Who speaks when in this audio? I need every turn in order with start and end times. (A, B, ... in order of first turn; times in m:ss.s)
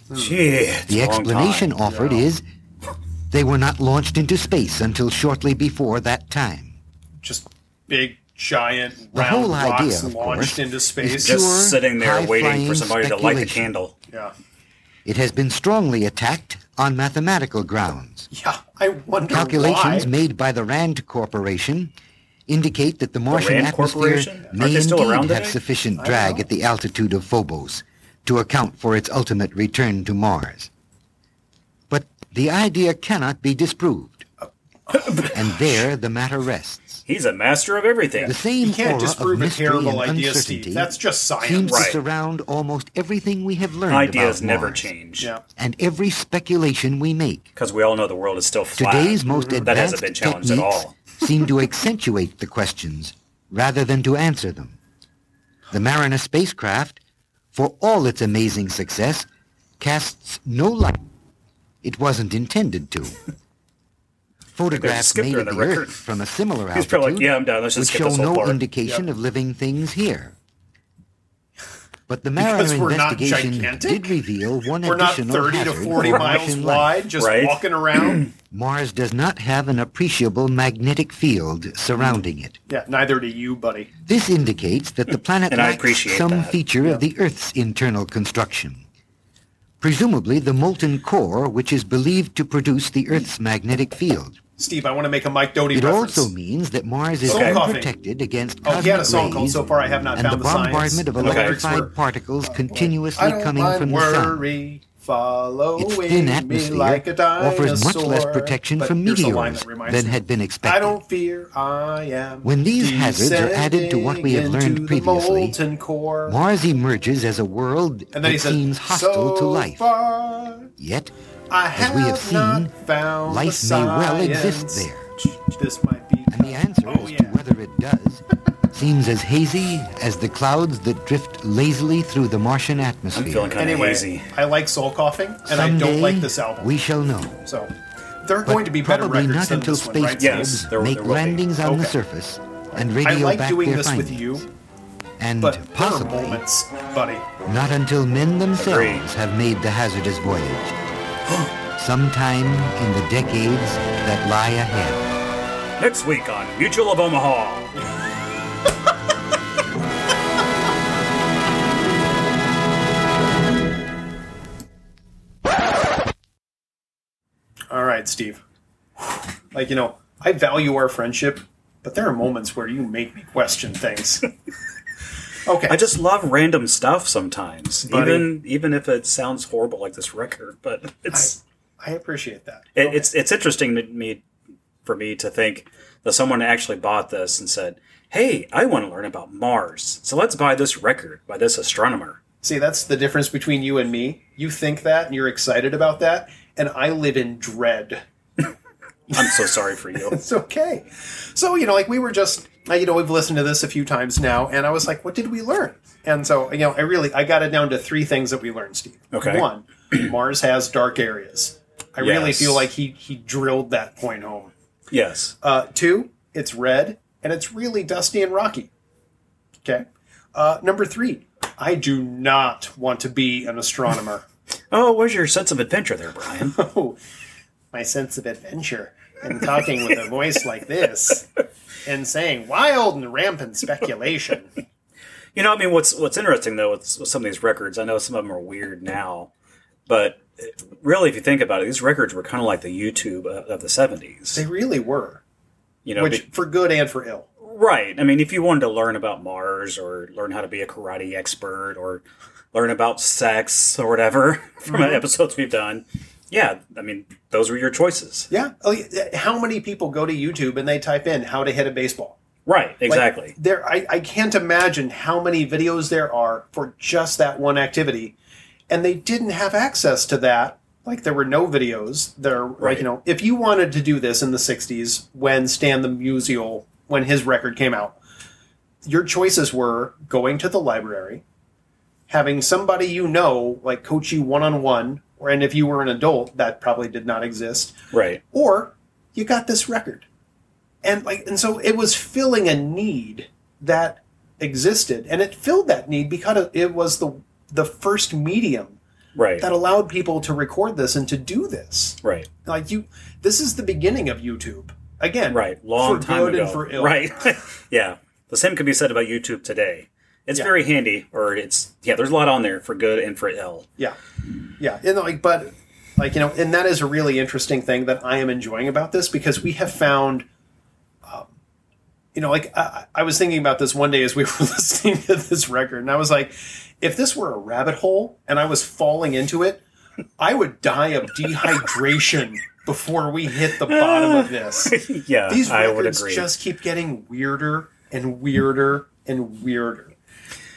0:00.1-0:01.7 A
0:00.9-0:02.4 B
0:01.8-0:02.2 C
0:03.3-0:06.8 B
0:07.2-0:11.4 C
0:09.1-0:13.7 B
0:11.1-0:13.9 A
0:15.0-0:18.3 B
0:18.3-0:20.1 C
0:19.3-0:21.9 B
0:22.5-0:30.7 B
0:23.3-0:25.6 A
0:26.0-0:26.4 C
0:31.9-0:34.3 B
0:34.9-0:35.4 C
0:35.3-0:37.0 B
0:37.0-0:38.4 A
0:38.2-0:44.9 B
0:38.6-0:41.9 C
0:41.6-0:42.0 A
0:43.9-0:45.3 A
0:45.6-0:47.5 B
0:47.6-0:51.0 A
0:48.8-0:54.8 B
0:49.2-0:49.7 C
0:55.7-0:57.0 B
0:57.5-0:59.3 B
0:59.8-1:01.0 B
1:01.8-1:03.2 B
1:04.5-1:10.4 B
1:04.7-1:06.0 A
1:06.7-1:08.6 A
1:12.1-1:17.0 B
1:12.4-1:14.1 C
1:14.8-1:18.3 C
1:16.0-1:16.4 A
1:17.2-1:18.2 A
1:18.5-1:22.6 B
1:22.7-1:23.9 C
1:24.0-1:28.8 B
1:25.5-1:26.6 A
1:29.8-1:34.4 B
1:34.6-1:36.3 C
1:35.7-1:44.4 B
1:37.2-1:37.9 C
1:37.3-1:37.6 A
1:38.6-1:41.9 C
1:41.2-1:41.6 A
1:42.4-1:56.4 C
1:45.8-1:51.0 B
1:52.4-1:55.6 B
1:56.2-1:59.8 B
1:58.1-2:00.7 C
2:00.8-2:01.1 B
2:01.5-2:07.4 C
2:01.7-2:02.7 B
2:03.2-2:05.1 B
2:06.3-2:13.6 B
2:13.1-2:14.3 A
2:13.6-2:16.7 C
2:15.4-2:17.4 B
2:17.4-2:17.7 C
2:18.2-2:20.7 C
2:18.4-2:24.4 B
2:20.2-2:21.4 A
2:21.6-2:21.9 C
2:22.7-2:24.4 C
2:25.2-2:26.4 B
2:25.4-2:27.3 C
2:27.4-2:30.8 B
2:28.5-2:29.0 A
2:31.7-2:35.1 B
2:35.8-2:37.7 A
2:47.7-2:48.4 C
2:49.0-2:54.3 C
2:55.4-2:55.8 C
2:55.7-3:01.3 A
2:57.9-2:58.3 C
3:01.1-3:03.1 C
3:02.8-3:04.2 A
3:04.8-3:12.2 A
3:12.4-3:18.0 C
3:19.1-3:19.4 C
3:19.1-3:20.2 A
3:19.9-3:34.5 C
3:29.1-3:29.4 A
3:32.0-3:32.7 A
3:34.9-3:35.3 A
3:35.4-3:38.7 C
3:39.6-3:44.2 C
3:44.7-3:46.6 A
3:46.5-3:47.0 C
3:47.7-3:51.3 C
3:51.8-3:54.5 C
3:55.3-3:59.3 A
3:59.9-4:04.4 A
4:04.3-4:05.2 C
4:05.8-4:06.2 A
4:06.0-4:07.2 C
4:07.4-4:18.3 A
4:18.3-4:22.2 C
4:22.4-4:23.3 A
4:22.9-4:28.2 C
4:28.7-4:38.0 C
4:32.6-4:32.8 A
4:38.8-4:41.2 C
4:42.1-4:47.8 C
4:47.9-4:48.2 A
4:48.3-4:50.0 C
4:50.8-4:58.8 C
4:59.1-4:59.5 A
4:59.4-5:07.0 C
5:05.3-5:13.6 A
5:14.6-5:20.2 C
5:22.1-5:29.6 C
5:30.2-5:39.9 C
5:33.6-5:36.3 A